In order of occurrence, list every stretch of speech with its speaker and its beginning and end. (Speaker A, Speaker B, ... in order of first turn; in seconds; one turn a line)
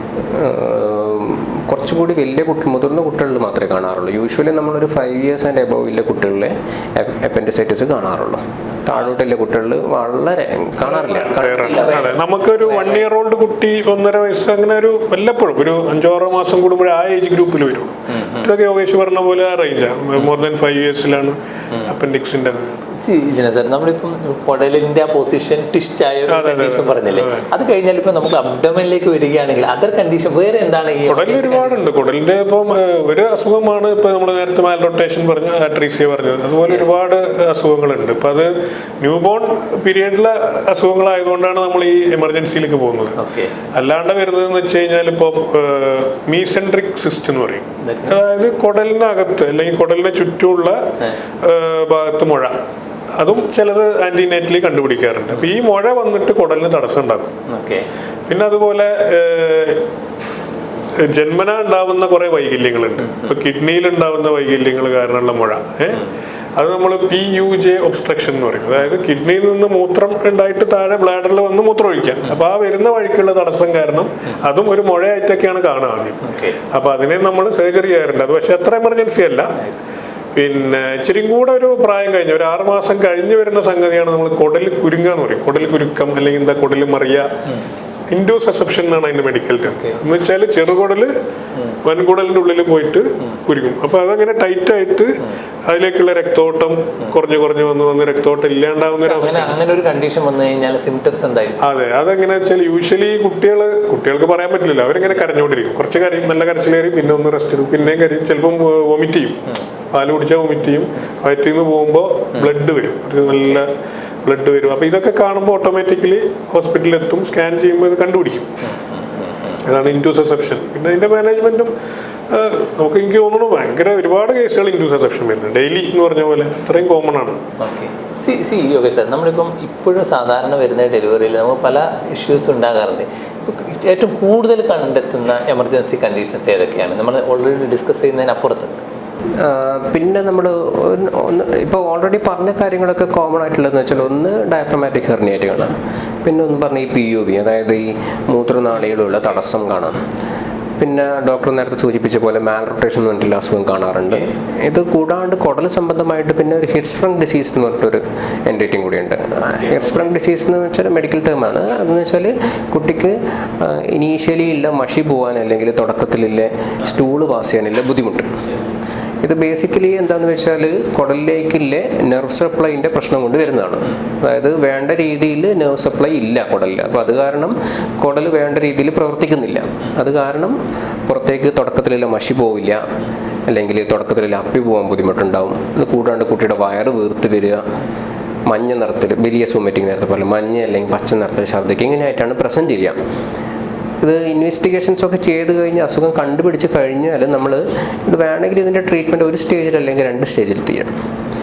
Speaker A: 0.2-12.2
Speaker B: 10.9-22.9
Speaker C: 18.1-18.4
Speaker C: 23.0-31.8
Speaker B: 26.3-27.5
Speaker B: 31.1-43.2
Speaker C: 43.2-43.5
Speaker B: 43.7-50.8
Speaker C: 47.8-48.2
Speaker B: 51.4-52.6
Speaker B: 53.2-57.4
Speaker C: 57.5-57.9
Speaker B: 58.3-59.8
Speaker B: 61.0-66.0
Speaker B: 66.6-79.6
Speaker C: 76.2-76.6
Speaker C: 79.6-79.9
Speaker B: 80.3-87.3
Speaker B: 88.1-91.1
Speaker C: 89.7-90.0
Speaker B: 91.8-99.5
Speaker C: 99.0-101.6
Speaker B: 101.6-109.4
Speaker B: 109.9-113.7
Speaker B: 114.2-118.6
Speaker C: 118.6-119.6
Speaker B: 119.6-121.7
Speaker B: 122.3-127.4
Speaker C: 127.6-138.8
Speaker A: 139.4-150.0
Speaker A: 150.8-168.3
Speaker A: 169.2-182.9
Speaker A: 183.5-187.7
Speaker A: 188.5-193.0
Speaker A: 194.0-200.9